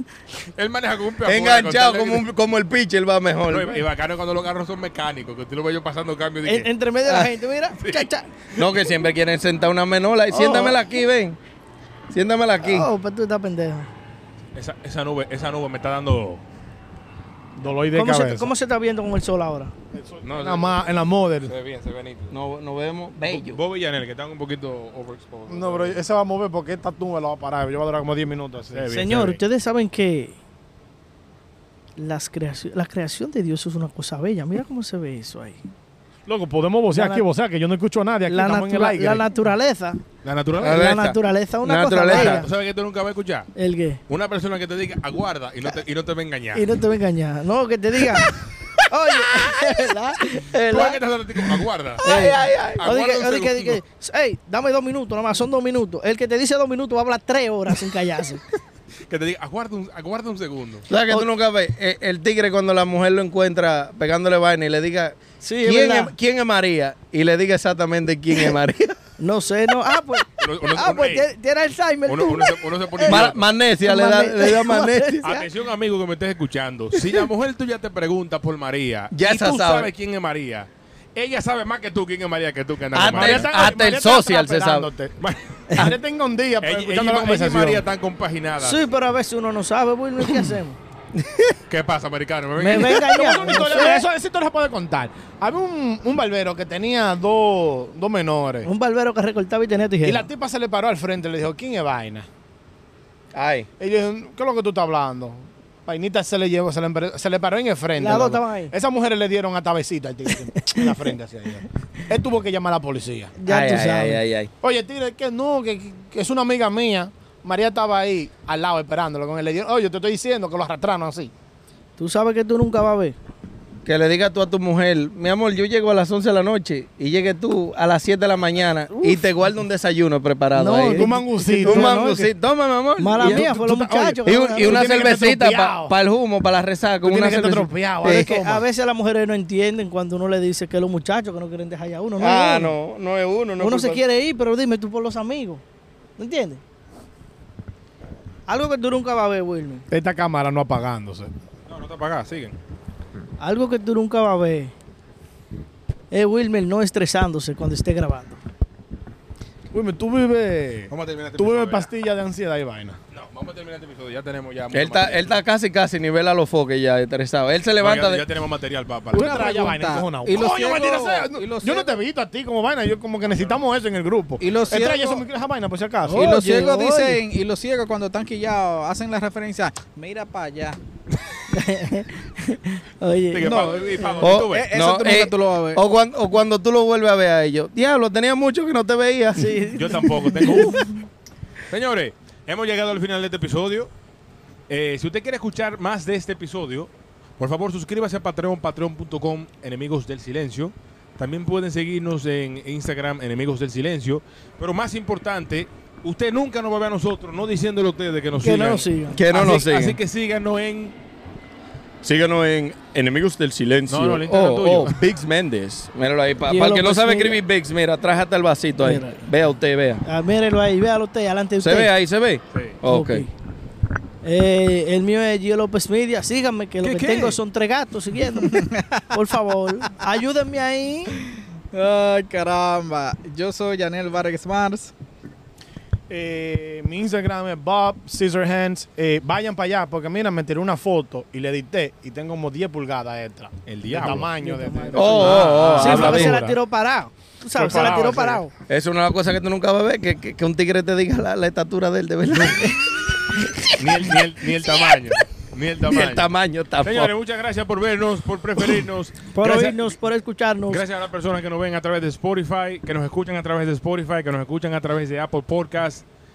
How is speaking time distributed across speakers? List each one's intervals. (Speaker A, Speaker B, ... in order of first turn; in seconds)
Speaker A: 0.6-2.2, 3.5-6.7, 7.8-8.0, 14.6-16.4, 20.2-20.9, 21.4-22.4, 23.2-26.0, 28.7-29.4, 40.2-40.9, 42.1-43.5, 44.1-46.6, 50.6-52.0, 52.7-53.8, 59.1-60.9, 70.4-71.3, 72.1-73.4, 75.2-83.5, 86.6-88.8, 91.7-93.2, 151.7-152.6, 160.9-161.9, 163.1-165.4, 167.8-169.7, 170.3-171.3, 173.3-173.6, 183.3-184.7, 189.7-191.0, 191.7-193.9, 194.7-210.9, 213.9-215.0, 222.5-222.8, 226.8-227.4, 243.7-244.3, 245.2-246.3, 247.6-248.4, 252.3-252.7, 253.8-256.3, 256.8-259.8, 260.7-266.0
Speaker B: 1.2-3.8, 8.6-11.4, 12.1-12.9, 22.3-23.6, 40.6-42.4, 52.0-52.9, 60.9-69.0, 73.1-75.2, 79.1-79.9, 83.0-84.9, 91.2-91.5, 103.3-103.7, 113.5-114.5, 123.9-133.5, 134.3-138.3, 142.2-144.0, 164.7-168.2, 184.2-189.6, 209.1-210.0, 212.0-220.0, 221.6-223.2, 244.9-246.4, 248.7-252.8, 255.9-257.1
Speaker C: 6.5-8.3, 10.3-11.0, 12.6-13.9, 17.9-19.7, 28.9-30.4, 32.0-35.6, 36.9-37.3, 38.3-40.0, 40.7-42.5, 43.5-44.0, 46.5-48.4, 48.9-51.0, 52.0-58.4, 65.4-66.1, 69.2-75.5, 85.7-86.0, 88.6-90.8, 92.6-94.1, 98.6-100.3, 108.0-108.7, 110.5-111.0, 113.4-114.2, 122.0-123.2, 128.9-129.2, 130.5-132.3, 133.0-134.9, 138.0-142.8, 143.6-145.6, 146.2-146.6, 148.5-149.9, 153.4-154.7, 156.1-158.4, 176.0-177.2, 181.5-184.1, 189.4-190.9, 208.4-209.2, 216.4-217.4, 218.8-219.2, 220.1-221.9, 222.8-223.3, 224.2-231.1, 244.0-248.5, 253.3-253.8, 259.3-260.8
Speaker D: 17.6-18.5, 19.9-21.5, 25.5-29.0, 36.3-39.3, 83.1-85.2, 85.8-87.8, 93.0-98.7, 100.0-102.3, 103.8-113.3, 114.6-121.3, 130.9-132.1, 133.2-135.9, 137.0-138.7, 149.9-151.3, 159.7-163.0, 169.1-176.3, 236.1-246.6, 247.6-248.4
Speaker E: 169.1-172.0, 174.4-175.3, 176.2-180.8, 183.4-185.8, 228.3-229.2, 231.7-234.9